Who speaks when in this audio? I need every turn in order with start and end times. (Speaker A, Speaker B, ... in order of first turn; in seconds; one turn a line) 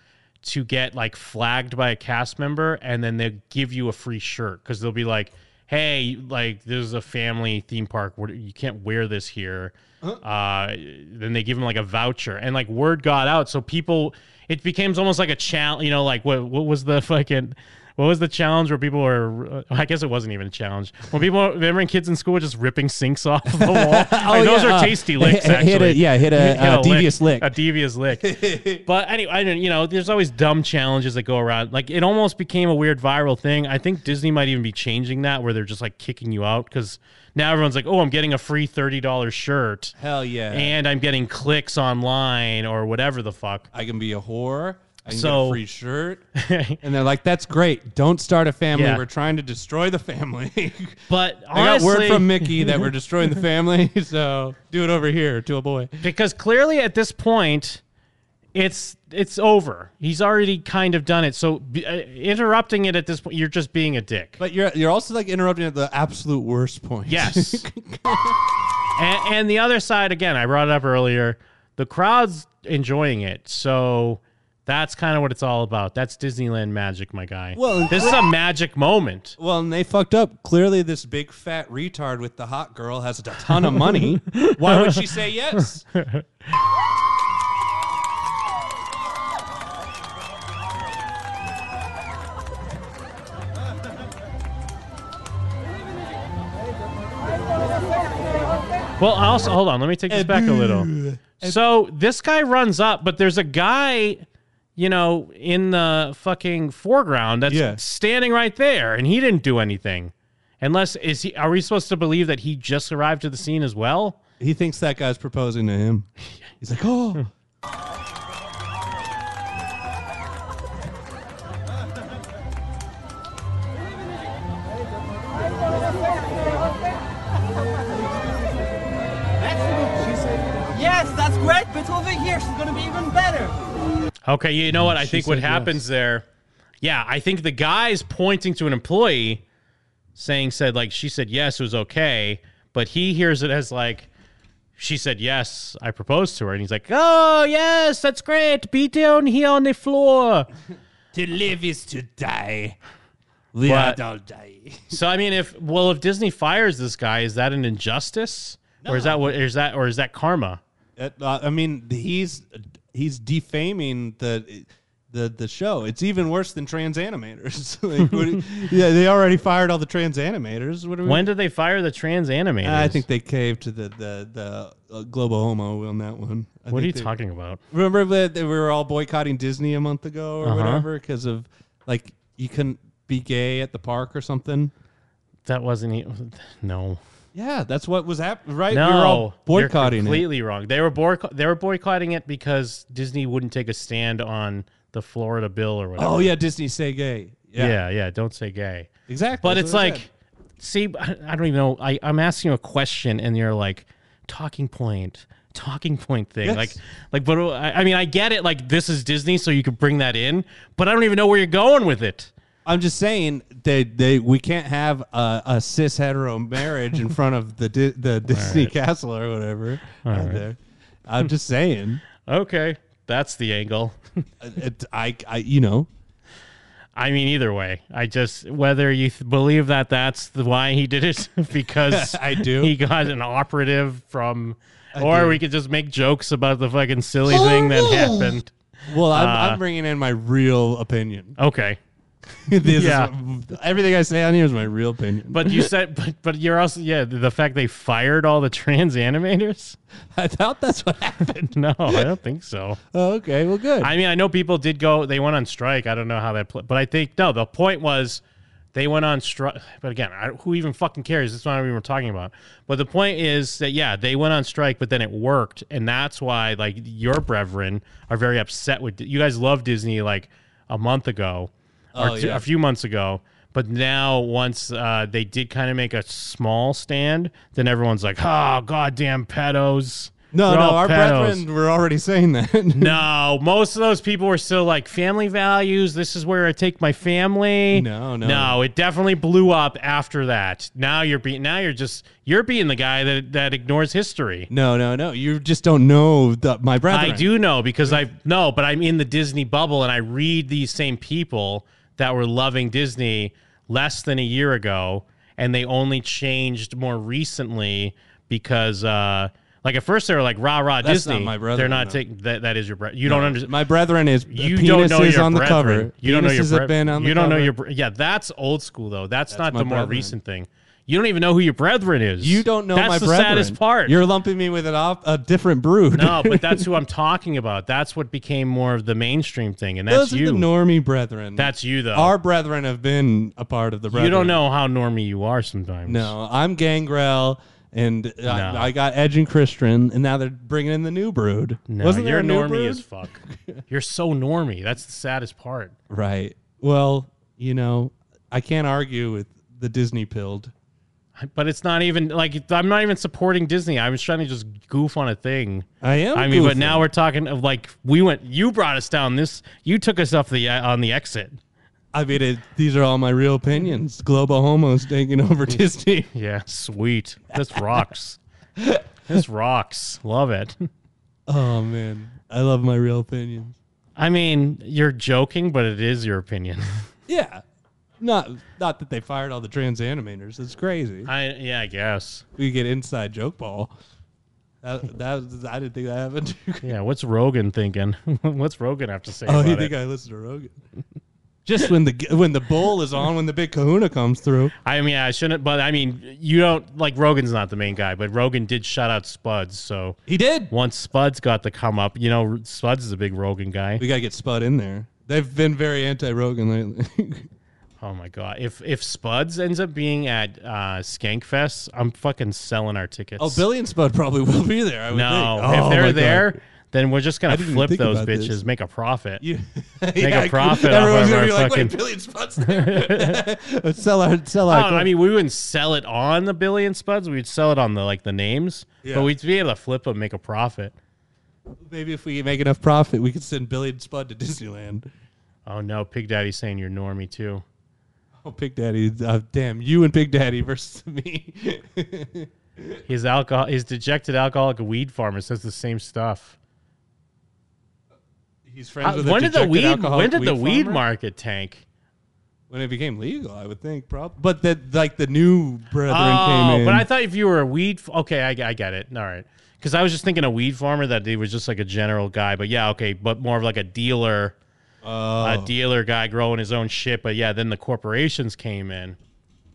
Speaker A: 0.4-39.9
Speaker B: 23.6-27.5
Speaker B: 28.2-28.8
Speaker B: 40.0-40.8
Speaker A: 40.5-43.7
Speaker B: 43.7-46.2
Speaker A: 45.1-45.6
Speaker A: 46.4-46.8
Speaker B: 46.8-51.0
Speaker A: 48.7-49.0
Speaker A: 51.1-52.9
Speaker B: 51.5-55.9
Speaker A: 56.0-57.8
Speaker A: 58.5-64.4
Speaker B: 64.4-68.4
Speaker A: 67.1-67.6
Speaker A: 69.0-79.4
Speaker B: 77.5-78.2
Speaker B: 79.4-85.8
Speaker A: 83.8-85.0
Speaker A: 85.9-86.2
Speaker A: 99.0-104.2
Speaker B: 100.1-101.6
Speaker A: 104.8-114.2
Speaker B: 107.5-107.8
Speaker B: 114.4-116.1
Speaker B: 116.6-117.2
Speaker B: 129.4-130.6
Speaker C: 130.7-133.6
Speaker A: 134.3-136.2
Speaker B: 134.7-135.8
Speaker A: 136.8-139.4
Speaker A: 140.1-144.1
Speaker A: 144.8-150.5
Speaker B: 151.1-152.8
Speaker B: 153.5-155.0
Speaker A: 153.7-154.0
Speaker A: 154.9-160.6
Speaker B: 158.8-159.3
Speaker B: 161.0-171.3
Speaker A: 171.0-173.0
Speaker B: 172.6-177.1
Speaker A: 176.7-177.6
Speaker B: 177.7-184.7
Speaker A: 180.4-180.8
Speaker A: 185.4-187.0
Speaker B: 187.3-190.2
Speaker A: 188.7-196.3
Speaker B: 196.0-197.8
Speaker A: 197.6-198.9
Speaker B: 199.1-200.0
Speaker A: 199.4-200.1
Speaker A: 200.6-212.3
Speaker B: 206.4-206.8
Speaker B: 212.7-222.0
Speaker A: 218.3-218.7
Speaker A: 220.0-220.4
Speaker A: 222.2-224.0
Speaker B: 224.4-225.9
Speaker A: 226.9-238.5
Speaker B: 231.9-232.7
Speaker B: 234.9-235.4
Speaker B: 237.3-238.3
Speaker B: 238.9-241.4
Speaker A: 239.1-239.6
Speaker A: 241.4-241.8
Speaker B: 242.5-245.7
Speaker A: 242.7-243.1
Speaker A: 245.3-249.8
Speaker B: 250.2-252.1
Speaker A: 251.5-252.8
Speaker B: 252.9-253.9
Speaker A: 253.8-258.2
Speaker A: 258.7-281.4
Speaker B: 271.9-272.4
Speaker B: 280.3-283.0
Speaker A: 282.8-294.5
Speaker B: 287.7-288.6
Speaker B: 294.5-297.3
Speaker A: 296.9-313.5
Speaker B: 310.8-312.0
Speaker B: 313.0-317.5
Speaker A: 314.3-324.0
Speaker B: 319.3-320.1
Speaker B: 322.2-326.7
Speaker A: 325.9-330.5
Speaker B: 329.9-334.4
Speaker A: 331.4-332.1
Speaker A: 333.9-336.1
Speaker B: 335.8-343.6
Speaker A: 338.3-338.7
Speaker A: 341.7-345.7
Speaker B: 345.9-350.5
Speaker A: 351.2-361.4
Speaker B: 355.8-356.9
Speaker B: 361.9-366.1
Speaker A: 366.1-368.2
Speaker B: 367.5-367.8
Speaker B: 368.6-368.8
Speaker A: 369.1-370.7
Speaker B: 371.3-373.5
Speaker A: 373.9-376.9
Speaker B: 377.1-377.4
Speaker B: 378.0-381.1
Speaker A: 381.1-382.2
Speaker B: 382.4-383.7
Speaker B: 384.6-386.7
Speaker A: 386.6-389.7
Speaker B: 389.2-390.5
Speaker B: 391.4-394.5
Speaker A: 394.6-400.0
Speaker B: 400.1-400.5
Speaker A: 400.5-403.8
Speaker B: 403.8-407.3
Speaker A: 407.8-413.4
Speaker B: 413.2-416.4
Speaker A: 414.9-419.2
Speaker B: 417.3-418.4
Speaker B: 419.2-424.9
Speaker A: 420.0-421.7
Speaker A: 422.5-423.2
Speaker A: 424.5-430.7
Speaker B: 428.8-429.1
Speaker B: 431.6-434.9
Speaker A: 435.4-437.4
Speaker B: 438.2-442.8
Speaker A: 442.9-446.4
Speaker B: 448.4-450.8
Speaker A: 448.8-451.6
Speaker B: 452.5-456.9
Speaker A: 455.9-464.3
Speaker B: 464.8-465.5
Speaker A: 465.2-469.0